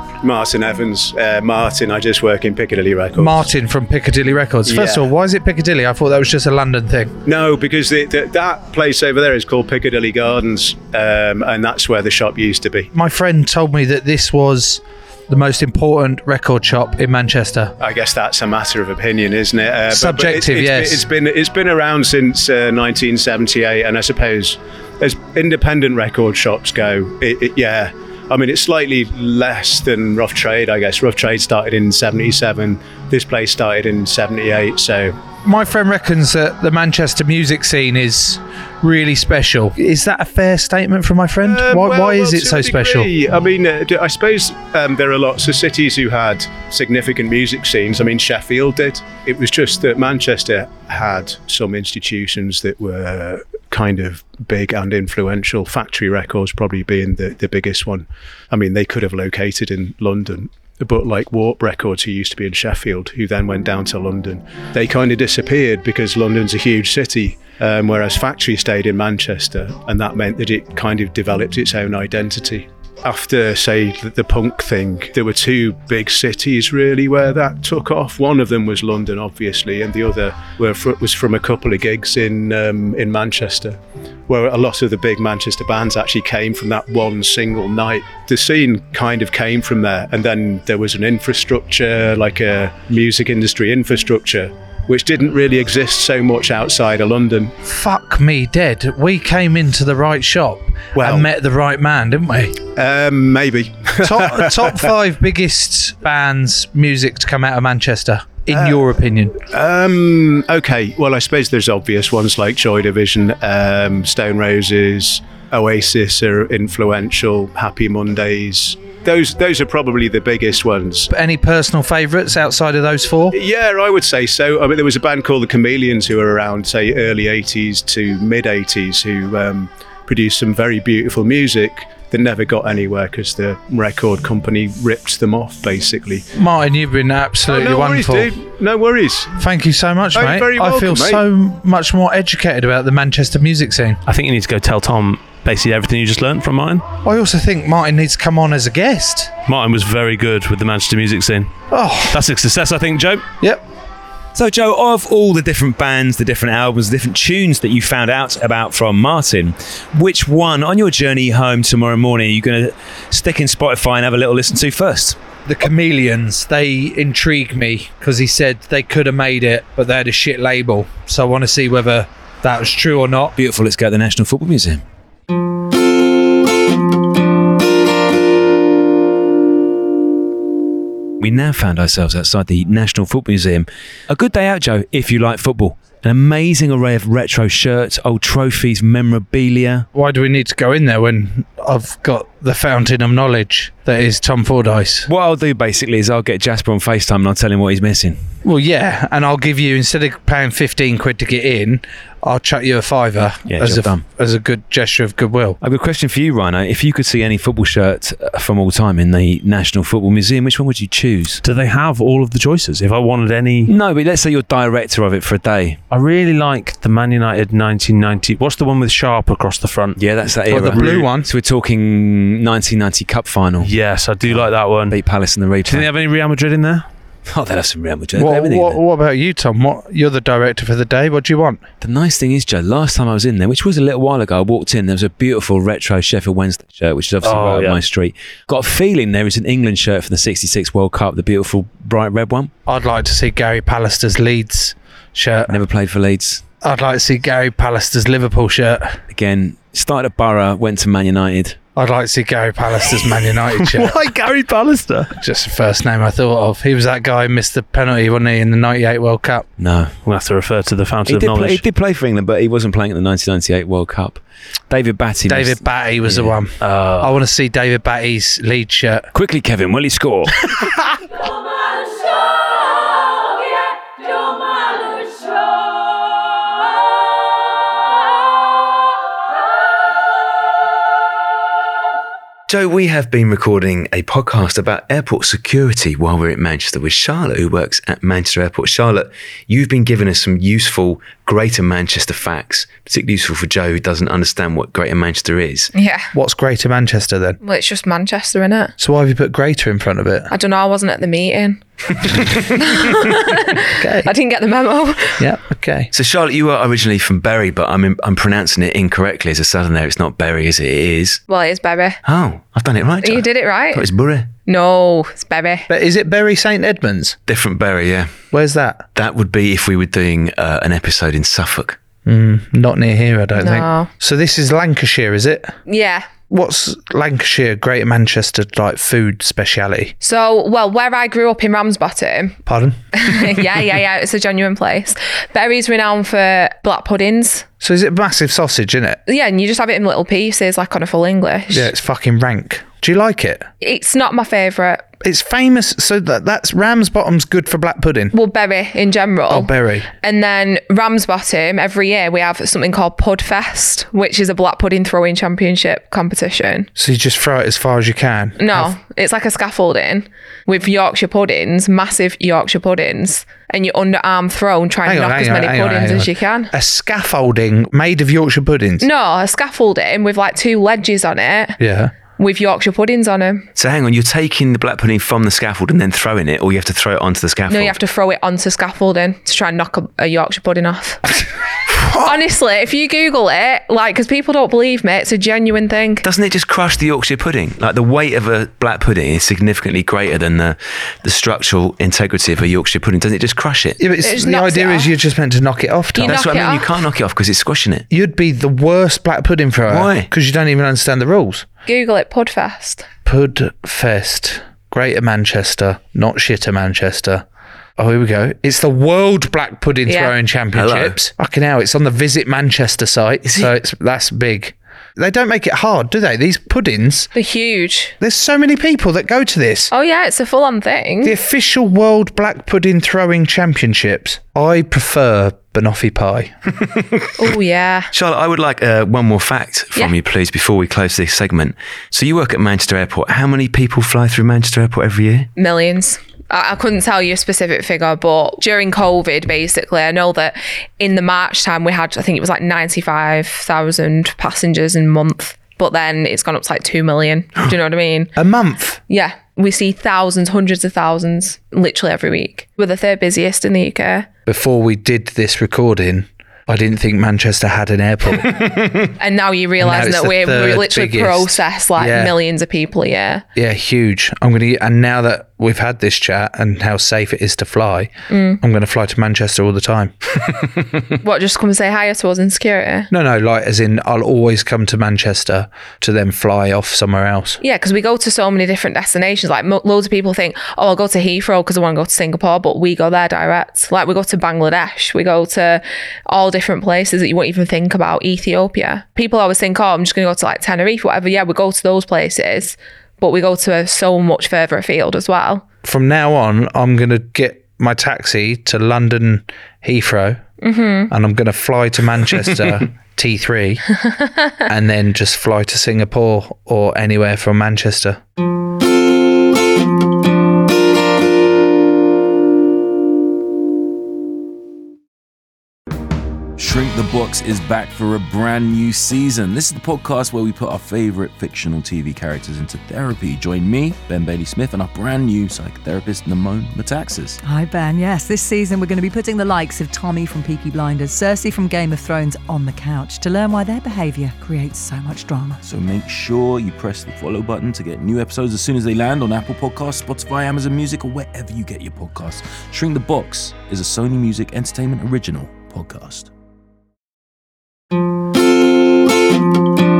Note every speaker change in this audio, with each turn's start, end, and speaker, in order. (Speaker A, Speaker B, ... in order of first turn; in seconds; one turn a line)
Speaker A: 0.2-3.5
Speaker B: 3.1-7.2
Speaker A: 4.7-5.1
Speaker A: 7.2-12.9
Speaker B: 12.9-17.7
Speaker A: 17.8-35.2
Speaker B: 19.9-21.1
Speaker B: 35.4-43.1
Speaker A: 41.4-97.5
Speaker B: 97.6-102.6
Speaker A: 100.9-101.3
Speaker A: 102.8-104.8
Speaker B: 104.0-109.4
Speaker A: 108.5-121.1
Speaker B: 121.1-123.3
Speaker A: 123.3-136.2
Speaker B: 136.3-138.3
Speaker A: 137.5-139.3
Speaker B: 139.4-144.0
Speaker A: 140.1-141.2
Speaker C: 144.1-146.8
Speaker B: 147.0-149.3
Speaker C: 149.5-151.5
Speaker B: 151.7-152.2
Speaker C: 152.1-153.3
Speaker D: 154.3-165.2
Speaker B: 165.4-173.3
Speaker D: 173.3-174.8
Speaker D: 181.2-189.9
Speaker B: 189.9-195.1
Speaker D: 195.1-198.2
Speaker B: 198.4-205.6
Speaker D: 203.5-204.0
Speaker D: 205.6-211.4
Speaker C: 211.4-213.7
Speaker D: 213.7-215.8
Speaker C: 215.9-220.0
Speaker D: 220.0-225.9
Speaker B: 220.5-221.3
Speaker C: 220.6-220.9
Speaker C: 223.6-225.0
Speaker C: 225.7-226.9
Speaker D: 227.3-228.8
Speaker B: 228.1-231.6
Speaker D: 231.8-242.5
Speaker C: 237.2-237.8
Speaker B: 242.7-245.6
Speaker D: 245.5-246.4
Speaker B: 246.6-249.0
Speaker D: 249.1-251.6
Speaker B: 251.8-254.0
Speaker C: 253.6-255.1
Speaker B: 255.2-259.5
Speaker D: 259.6-259.9
Speaker C: 260.0-261.6
Speaker D: 261.1-266.3
Speaker B: 265.3-269.1
Speaker C: 266.6-267.1
Speaker D: 269.1-270.4
Speaker D: 282.5-295.7
Speaker E: 295.7-296.1
Speaker B: 296.1-297.4
Speaker E: 297.4-298.7
Speaker B: 298.8-300.3
Speaker E: 300.3-305.2
Speaker B: 303.8-304.1
Speaker B: 305.2-305.9
Speaker D: 305.9-311.2
Speaker E: 311.3-312.0
Speaker D: 312.0-314.3
Speaker E: 313.0-313.9
Speaker E: 314.5-315.7
Speaker B: 315.7-317.2
Speaker D: 317.3-318.1
Speaker B: 318.3-318.9
Speaker D: 318.9-321.8
Speaker B: 322.0-325.5
Speaker E: 323.4-323.9
Speaker E: 325.7-326.1
Speaker B: 326.3-329.9
Speaker E: 330.0-332.4
Speaker B: 332.4-333.3
Speaker E: 333.0-337.4
Speaker B: 337.6-339.0
Speaker E: 339.1-341.7
Speaker B: 341.5-343.5
Speaker E: 343.6-344.9
Speaker B: 345.0-348.1
Speaker E: 348.1-356.7
Speaker B: 349.3-349.9
Speaker B: 356.8-358.7
Speaker E: 358.4-366.5
Speaker B: 364.9-368.9
Speaker E: 368.8-371.6
Speaker B: 371.6-371.9
Speaker E: 372.1-373.4
Speaker D: 373.6-377.8
Speaker E: 377.5-381.0
Speaker E: 382.0-386.0
Speaker D: 386.0-393.8
Speaker B: 393.8-396.2
Speaker E: 394.0-394.9
Speaker E: 395.9-396.7
Speaker D: 396.0-397.9
Speaker B: 397.9-401.4
Speaker D: 399.7-400.1
Speaker E: 401.6-402.9
Speaker B: 403.0-407.2
Speaker B: 407.8-417.1
Speaker E: 409.9-410.1
Speaker D: 410.5-411.0
Speaker D: 413.2-413.5
Speaker E: 417.1-417.9
Speaker B: 418.0-419.7
Speaker E: 419.7-421.1
Speaker B: 421.0-426.3
Speaker E: 427.2-427.9
Speaker D: 427.9-435.3
Speaker E: 435.4-448.1
Speaker B: 448.1-448.8
Speaker E: 448.9-454.1
Speaker B: 454.2-458.6
Speaker E: 459.0-463.2
Speaker B: 459.6-462.1
Speaker B: 463.4-469.9
Speaker E: 468.1-468.4
Speaker E: 471.0-472.9
Speaker B: 472.9-477.4
Speaker E: 477.4-495.4
Speaker B: 495.6-500.2
Speaker E: 500.4-500.9
Speaker B: 500.9-503.6
Speaker E: 503.8-504.1
Speaker B: 504.5-508.0
Speaker F: 516.4-527.2
Speaker G: 527.2-535.4
Speaker F: 535.4-546.1